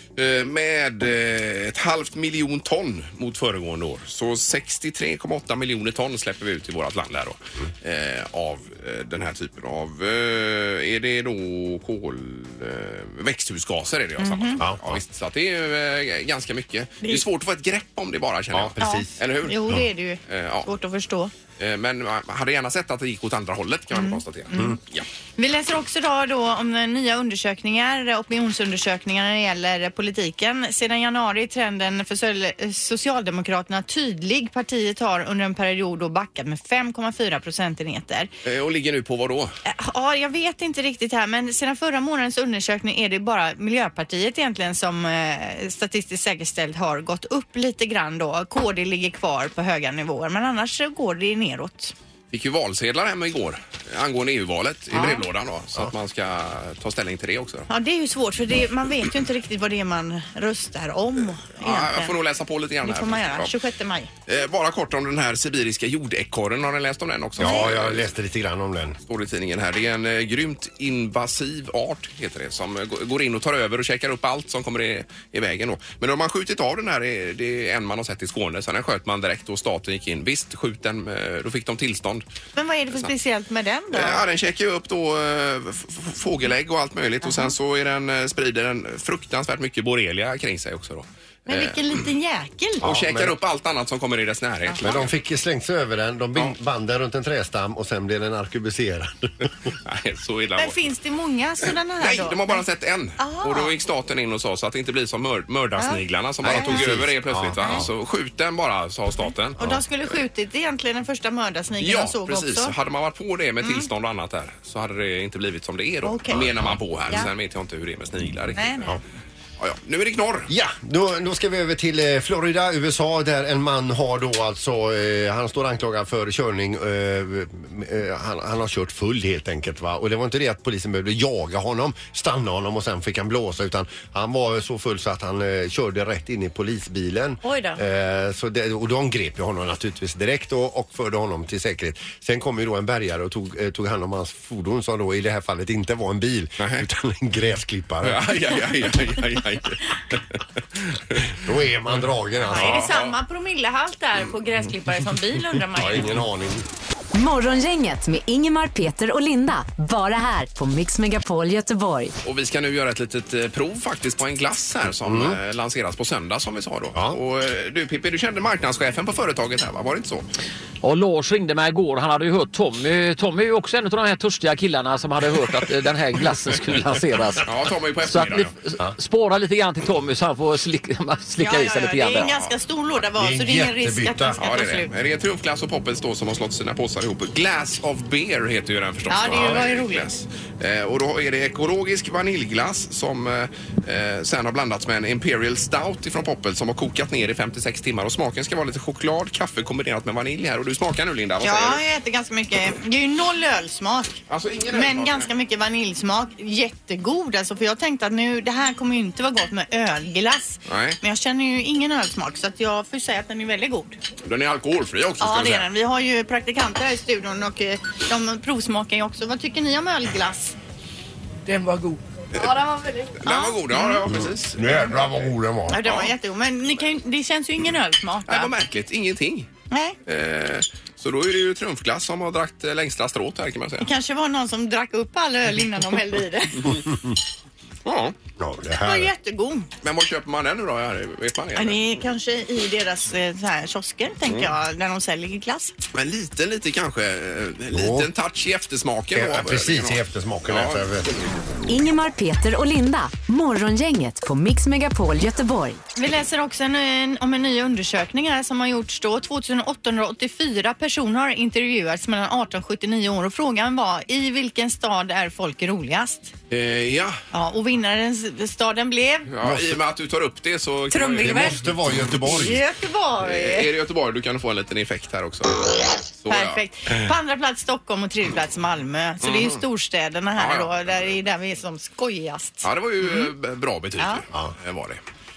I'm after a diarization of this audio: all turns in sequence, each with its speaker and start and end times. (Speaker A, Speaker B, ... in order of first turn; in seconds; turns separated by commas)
Speaker A: 0.2-19.7, Speaker B: 14.2-14.6, Speaker C: 14.6-15.0, Speaker C: 18.5-19.2, Speaker B: 18.8-21.3, Speaker A: 20.3-20.7, Speaker A: 21.6-25.1, Speaker B: 23.9-24.8, Speaker B: 25.4-38.3, Speaker A: 38.4-39.5, Speaker B: 39.7-51.9, Speaker A: 52.3-57.7, Speaker B: 54.9-55.2, Speaker B: 57.7-62.1, Speaker A: 61.6-63.5, Speaker B: 62.8-64.1, Speaker A: 64.3-68.1, Speaker C: 67.4-69.0, Speaker B: 67.4-67.7, Speaker A: 69.1-82.2, Speaker B: 82.6-84.2, Speaker A: 83.9-92.1, Speaker B: 87.2-87.5, Speaker B: 91.5-92.9, Speaker C: 92.8-93.4, Speaker A: 92.8-95.1, Speaker C: 94.8-99.7, Speaker A: 99.8-100.8, Speaker B: 100.6-102.6, Speaker A: 102.0-109.6, Speaker B: 103.2-103.8, Speaker B: 105.8-106.9, Speaker C: 106.4-107.9, Speaker B: 107.6-107.8, Speaker B: 109.6-112.7, Speaker A: 111.8-118.9, Speaker B: 113.6-113.9, Speaker B: 116.0-116.5, Speaker C: 116.3-116.8, Speaker B: 118.5-118.9, Speaker A: 119.6-120.5, Speaker C: 120.5-148.3, Speaker B: 137.4-137.8, Speaker A: 146.6-146.9, Speaker A: 148.0-151.4, Speaker C: 151.4-152.9, Speaker A: 152.5-153.2, Speaker B: 152.5-156.1, Speaker C: 155.8-156.7, Speaker D: 157.1-162.1, Speaker A: 162.2-170.3, Speaker C: 165.0-165.4, Speaker E: 170.8-177.5, Speaker A: 177.4-178.5, Speaker E: 178.0-182.3, Speaker B: 181.4-184.9, Speaker A: 182.2-182.5, Speaker C: 183.2-184.4, Speaker A: 184.4-201.8, Speaker B: 189.1-190.1, Speaker C: 189.3-189.6, Speaker B: 201.4-204.2, Speaker A: 204.3-205.3, Speaker B: 204.7-214.0, Speaker A: 210.7-211.0, Speaker A: 214.2-215.7, Speaker B: 215.2-220.6, Speaker A: 222.3-226.1, Speaker B: 222.4-224.0, Speaker C: 224.1-225.8, Speaker B: 225.7-228.5, Speaker A: 228.3-229.5, Speaker B: 229.7-230.0, Speaker A: 230.1-233.9, Speaker B: 233.8-236.8, Speaker A: 237.8-238.2, Speaker C: 238.4-239.1, Speaker B: 238.8-239.7, Speaker A: 239.8-241.8, Speaker B: 241.6-245.7, Speaker A: 245.9-250.8, Speaker C: 247.7-248.1, Speaker C: 249.2-251.1, Speaker D: 251.7-255.8, Speaker B: 256.0-266.3, Speaker A: 266.5-267.2, Speaker B: 267.3-269.3, Speaker A: 269.3-272.3, Speaker C: 269.4-269.8, Speaker B: 270.9-271.6, Speaker C: 271.2-272.6, Speaker B: 272.3-273.7, Speaker A: 273.2-276.6, Speaker B: 276.3-283.3, Speaker A: 279.2-279.6, Speaker A: 280.4-280.7, Speaker A: 282.6-285.0